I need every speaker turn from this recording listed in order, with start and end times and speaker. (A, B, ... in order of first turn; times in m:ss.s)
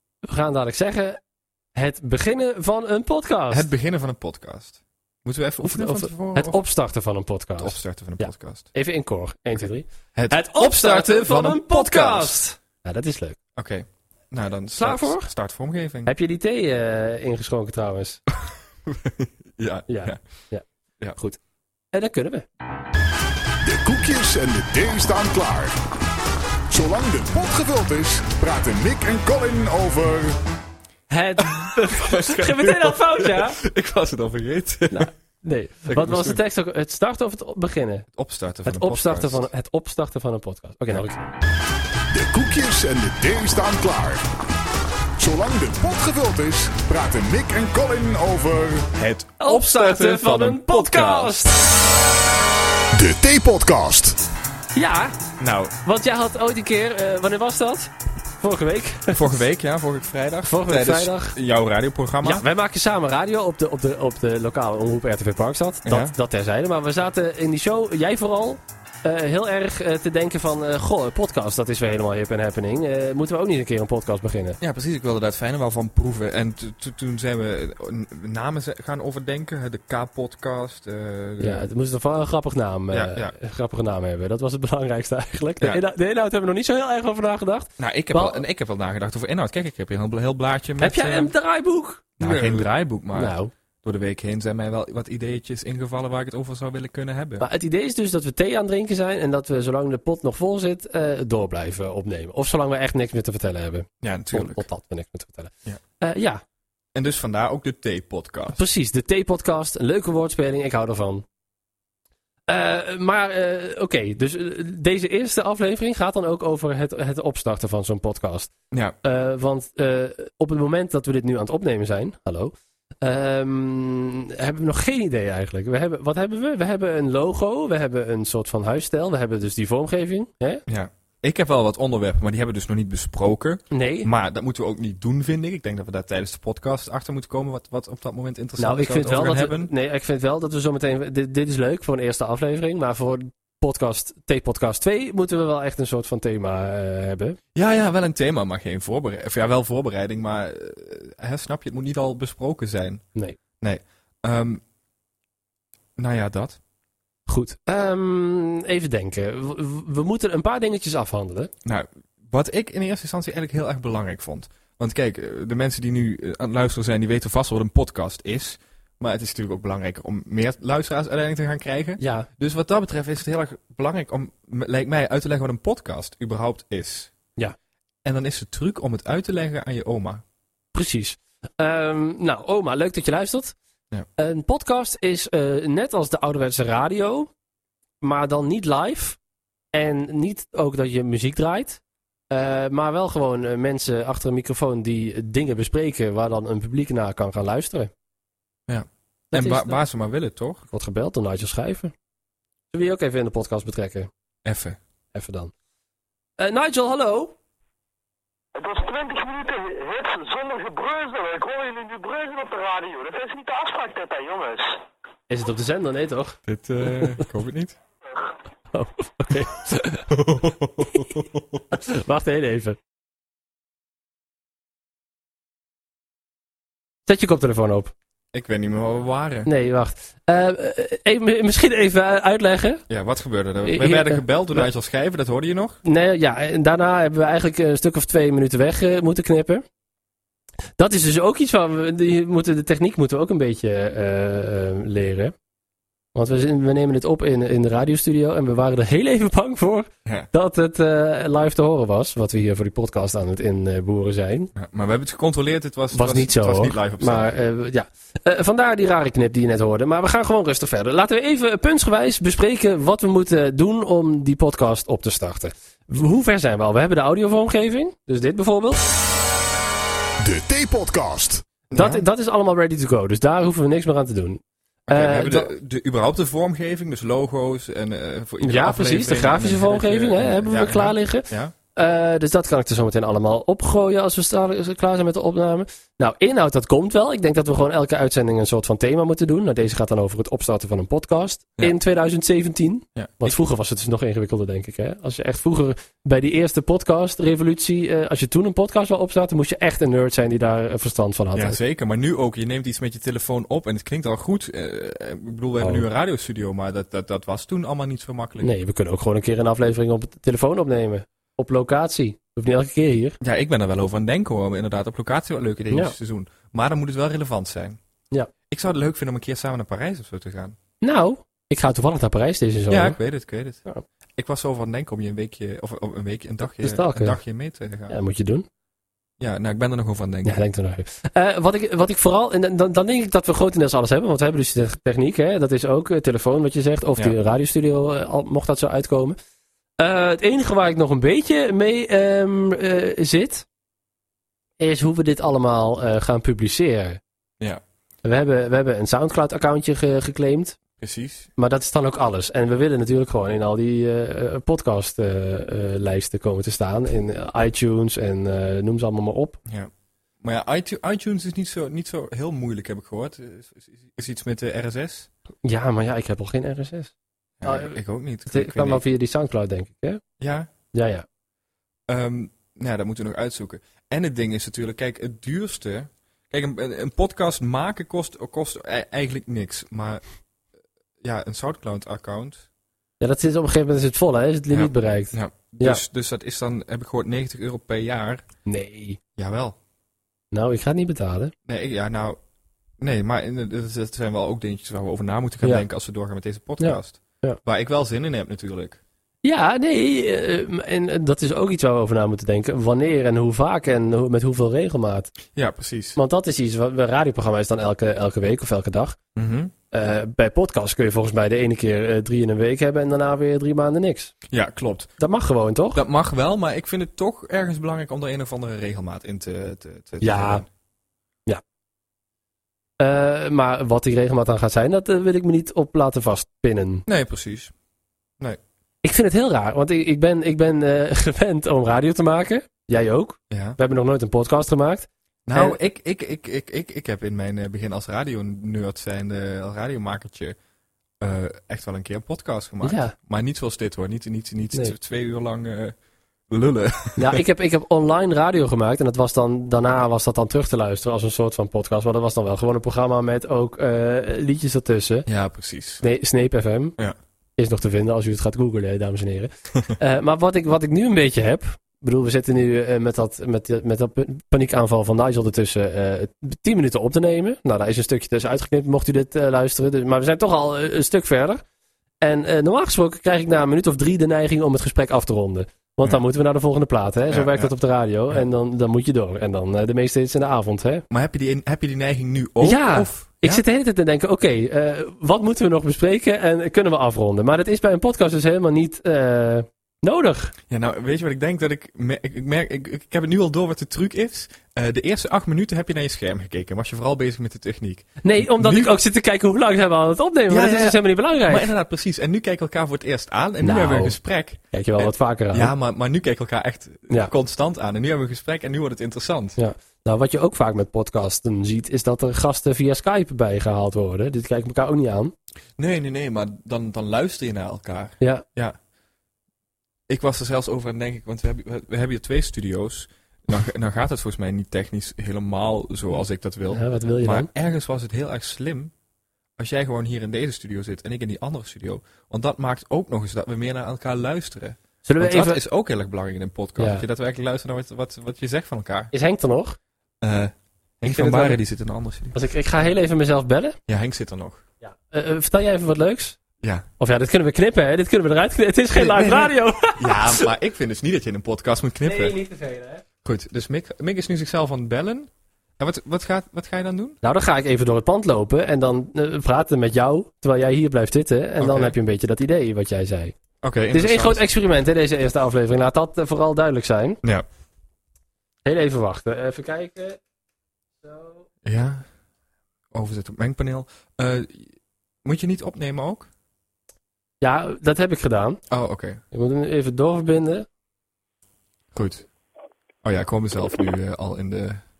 0:00.2-0:01.2 A
0:01.7-0:03.7 A
0:03.5-0:06.6 B
0:05.6-0:13.4 A
0:07.6-0:08.7 B
0:10.1-0:12.4 B
0:13.6-0:16.1 B
0:14.8-0:15.3 A
0:16.0-0:18.2 A
0:18.9-0:20.2 B
0:19.9-0:20.6 A
0:21.9-0:22.4 A
0:23.6-0:25.7 C
0:26.7-0:30.4 C
0:31.1-0:33.6 A
0:31.4-0:35.1 B
0:34.9-0:38.1 A
0:35.9-0:36.4 B
0:38.1-0:39.5 B
0:38.6-0:41.2 A
0:42.1-0:44.2 C
0:45.2-0:49.0 C
0:49.0-0:51.3 B
0:49.4-0:51.5 A
0:52.9-0:54.2 C
0:54.7-0:55.2 A
0:55.4-0:55.7 B
0:55.8-0:59.3 A
0:59.1-1:02.4 B
1:00.4-1:01.4 A
1:02.2-1:14.6 A
1:05.8-1:06.1 B
1:14.6-1:21.6 B
1:21.4-1:28.4 A
1:22.9-1:23.3 B
1:27.8-1:31.3 B
1:30.8-1:33.5 A
1:32.2-1:37.4 B
1:37.4-1:46.4 A
1:44.0-1:44.6 B
1:46.9-1:48.6 B
1:48.5-1:51.2 A
1:52.5-1:58.5 A
1:58.7-1:59.0 B
1:59.0-2:10.6 A
2:10.7-2:19.7 B
2:13.7-2:14.1 A
2:18.6-2:27.4 A
2:27.5-2:33.0 B
2:33.6-2:34.6 B
2:36.0-2:36.6 B
2:37.3-2:41.5 A
2:41.6-2:57.1 B
2:52.0-2:52.3 A
2:58.0-3:00.2 B
3:00.7-3:03.5 A
3:04.2-3:07.3 A
3:08.0-3:09.2 A
3:09.7-3:11.8 A
3:12.3-3:17.9 A
3:18.7-3:20.6 B
3:19.3-3:19.8 A
3:20.7-3:21.9 A
3:22.7-3:24.1 A
3:24.4-3:24.8 B
3:25.1-3:25.5 A
3:26.4-3:27.3 A
3:28.5-3:34.8 D
3:35.3-3:36.4 A
3:36.4-3:37.8 B
3:38.7-3:40.0 A
3:40.1-3:41.6 B
3:41.7-3:42.8 A
3:47.1-3:47.9 A
3:48.3-3:49.5 B
3:49.4-3:52.8 A
3:52.9-3:55.8 B
3:53.6-3:54.7 A
3:55.8-3:59.6 A
4:00.8-4:05.3 A
4:06.1-4:14.5 A
4:14.5-4:17.4 B
4:15.9-4:28.8 A
4:30.2-4:31.4 C
4:31.7-4:32.0 B
4:31.7-4:35.5 A
4:34.9-4:41.5 B
4:38.4-5:01.6 A
4:53.0-4:53.4 B
5:01.3-5:08.5 B
5:08.4-5:13.2 A
5:13.2-5:17.8 B
5:18.5-5:20.6 B
5:20.8-5:23.0 A
5:22.7-5:23.6 B
5:24.2-5:28.0 B
5:26.6-5:27.2 A
5:27.9-5:28.4 A
5:29.2-5:30.4 B
5:30.2-5:39.2 A
5:39.8-5:43.4 A
5:44.6-5:47.0 A
5:48.0-5:50.6 A
5:50.8-5:51.3 B
5:51.4-5:59.4 A
6:00.2-6:05.1 B
6:05.4-6:06.9 A
6:07.4-6:08.8 B
6:07.4-6:07.8 A
6:08.3-6:10.0 A
6:10.2-6:10.5 B
6:10.7-6:11.0 A
6:11.9-6:20.0 B
6:21.0-6:22.4 B
6:23.0-6:25.8 A
6:24.5-6:28.2 B
6:28.5-6:29.0 A
6:29.2-6:29.6 B
6:30.3-6:31.3 A
6:31.4-6:32.2 B
6:32.8-6:38.8 B
6:36.6-6:37.4 A
6:39.2-6:45.1 A
6:45.3-6:46.0 B
6:46.0-6:49.0 A
6:49.2-6:49.5 B
6:49.7-6:54.1 A
6:54.3-6:54.9 B
6:55.0-6:55.8 A
6:55.7-7:00.4 B
7:00.0-7:00.4 A
7:02.8-7:06.8 A
7:06.9-7:07.5 B
7:08.8-7:15.6 A
7:13.3-7:13.6 B
7:15.3-7:20.4 B
7:21.0-7:25.8 B
7:22.6-7:22.9 A
7:26.3-7:27.2 B
7:27.0-7:35.1 A
7:35.1-7:35.8 B
7:35.8-7:36.8 A
7:37.4-7:51.4 A
7:52.0-8:00.8 A
7:57.1-7:57.5 B
8:00.9-8:03.4 B
8:02.4-8:10.3 A
8:10.5-8:18.8 B
8:18.0-8:21.5 A
8:20.3-8:29.4 B
8:23.4-8:24.0 A
8:24.5-8:25.5 A
8:29.4-8:35.1 A
8:35.6-8:38.6 B
8:39.9-8:48.7 B
8:46.5-8:47.3 A
8:49.4-8:58.9 B
8:54.8-8:55.4 A
8:56.6-8:56.8 A
8:58.9-8:59.6 A
9:00.0-9:02.1 B
9:00.8-9:01.4 A
9:02.1-9:03.6 A
9:03.7-9:04.4 B
9:04.6-9:06.2 A
9:06.8-9:10.2 A
9:08.7-9:12.2 B
9:11.8-9:12.8 A
9:13.0-9:17.0 B
9:17.0-9:23.1 A
9:21.4-9:21.7 B
9:23.4-9:24.2 B
9:23.7-9:27.0 A
9:28.4-9:30.0 A
9:30.8-9:31.2 A
9:31.4-9:31.8 B
9:32.7-9:36.1 B
9:37.2-9:38.4 A
9:38.5-9:39.0 B
9:39.1-9:40.4 A
9:41.7-9:42.0 B
9:42.8-9:44.6 B